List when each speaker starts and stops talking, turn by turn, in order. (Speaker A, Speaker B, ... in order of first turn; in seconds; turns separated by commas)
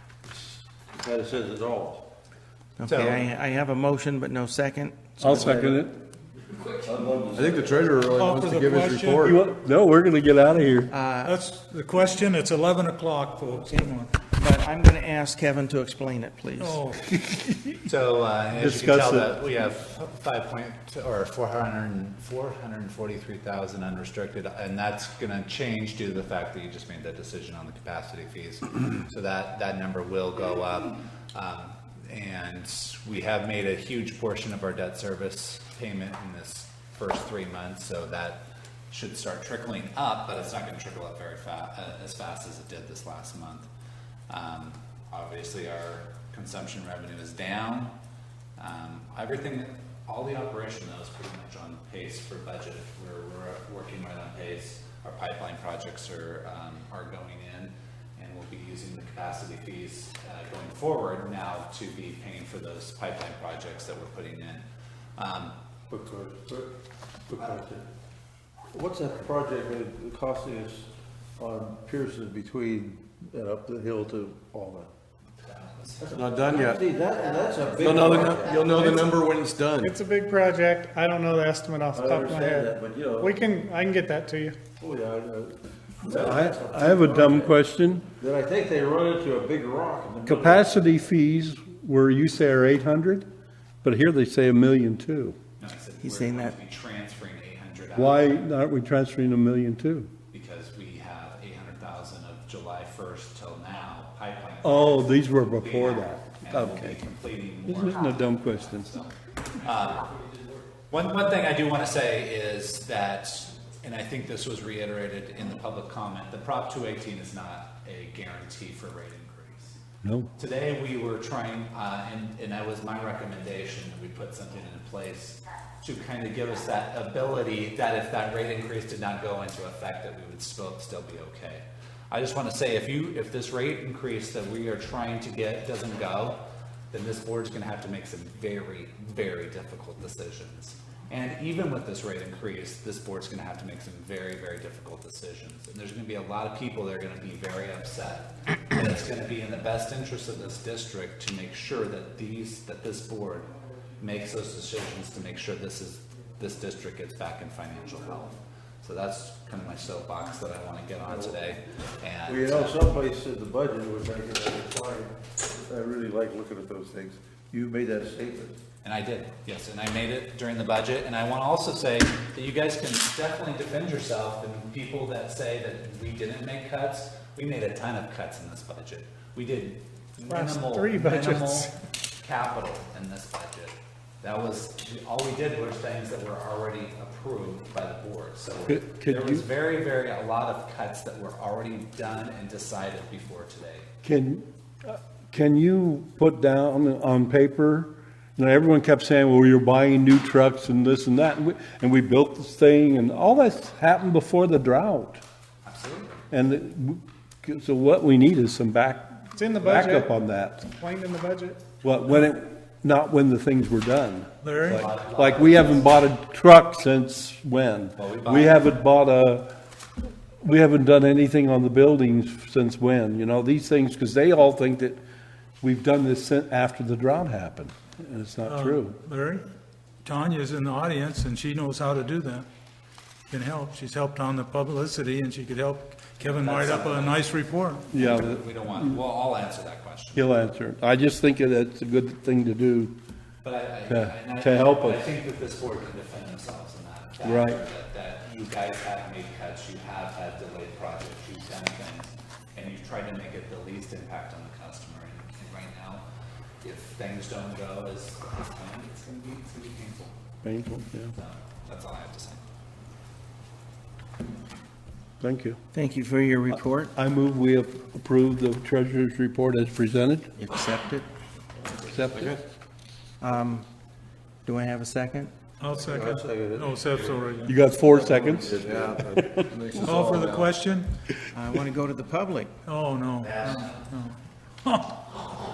Speaker A: 0.2-2.1, Speaker B: 2.8-5.8, Speaker C: 2.9-3.2, Speaker D: 5.2-6.0, Speaker A: 6.8-8.1, Speaker E: 7.3-9.4, Speaker F: 8.1-9.3, Speaker D: 9.2-10.9, Speaker B: 10.9-11.4, Speaker F: 11.2-14.2, Speaker B: 13.7-16.8, Speaker F: 16.6-17.1, Speaker D: 17.2-17.8, Speaker C: 17.9-43.7, Speaker D: 18.6-19.3, Speaker C: 44.3-47.9, Speaker C: 48.6-64.6, Speaker C: 65.2-65.5, Speaker A: 65.9-66.7, Speaker A: 67.3-67.8, Speaker A: 68.7-74.9, Speaker C: 75.4-76.0, Speaker A: 76.0-79.1, Speaker E: 76.1-76.8, Speaker E: 77.8-79.9, Speaker G: 78.7-79.1, Speaker G: 79.8-84.5, Speaker A: 81.9-83.3, Speaker A: 84.8-87.5, Speaker D: 86.0-88.0, Speaker A: 88.2-90.8, Speaker D: 90.2-93.3, Speaker D: 93.8-95.4, Speaker C: 95.6-98.5, Speaker B: 96.0-96.6, Speaker D: 97.9-100.1, Speaker C: 100.3-110.1, Speaker D: 104.6-107.0, Speaker D: 107.6-108.9, Speaker C: 110.9-119.8, Speaker D: 120.0-120.3, Speaker C: 120.4-136.4, Speaker C: 136.9-162.9, Speaker A: 161.0-161.4, Speaker A: 162.2-168.6, Speaker C: 168.8-181.7, Speaker G: 180.3-181.7, Speaker C: 182.2-193.9, Speaker D: 188.7-189.4, Speaker D: 194.0-205.2, Speaker C: 205.6-206.2, Speaker D: 206.3-210.7, Speaker G: 209.3-210.1, Speaker G: 210.7-211.7, Speaker D: 211.8-219.5, Speaker F: 214.4-214.9, Speaker C: 214.7-216.0, Speaker C: 218.0-218.6, Speaker D: 220.4-225.0, Speaker D: 225.6-228.9, Speaker F: 228.5-229.4, Speaker F: 230.0-232.4, Speaker F: 233.3-237.8, Speaker C: 236.2-237.2, Speaker D: 237.9-239.0, Speaker C: 237.9-240.3, Speaker D: 240.1-242.9, Speaker C: 243.4-256.0, Speaker D: 243.9-245.1, Speaker D: 247.2-247.6, Speaker C: 256.6-260.1, Speaker D: 260.4-261.1, Speaker C: 261.1-262.4, Speaker D: 265.2-265.6, Speaker B: 265.7-266.9, Speaker D: 266.9-270.3, Speaker B: 270.4-271.1, Speaker D: 271.8-272.3, Speaker B: 273.2-273.7, Speaker B: 274.4-275.3, Speaker F: 275.6-277.5, Speaker A: 275.8-277.2, Speaker D: 277.4-279.5, Speaker A: 277.9-279.1, Speaker E: 278.6-280.5, Speaker A: 279.8-280.2, Speaker F: 279.8-280.9, Speaker B: 281.3-282.5, Speaker F: 282.6-285.0, Speaker C: 283.2-283.8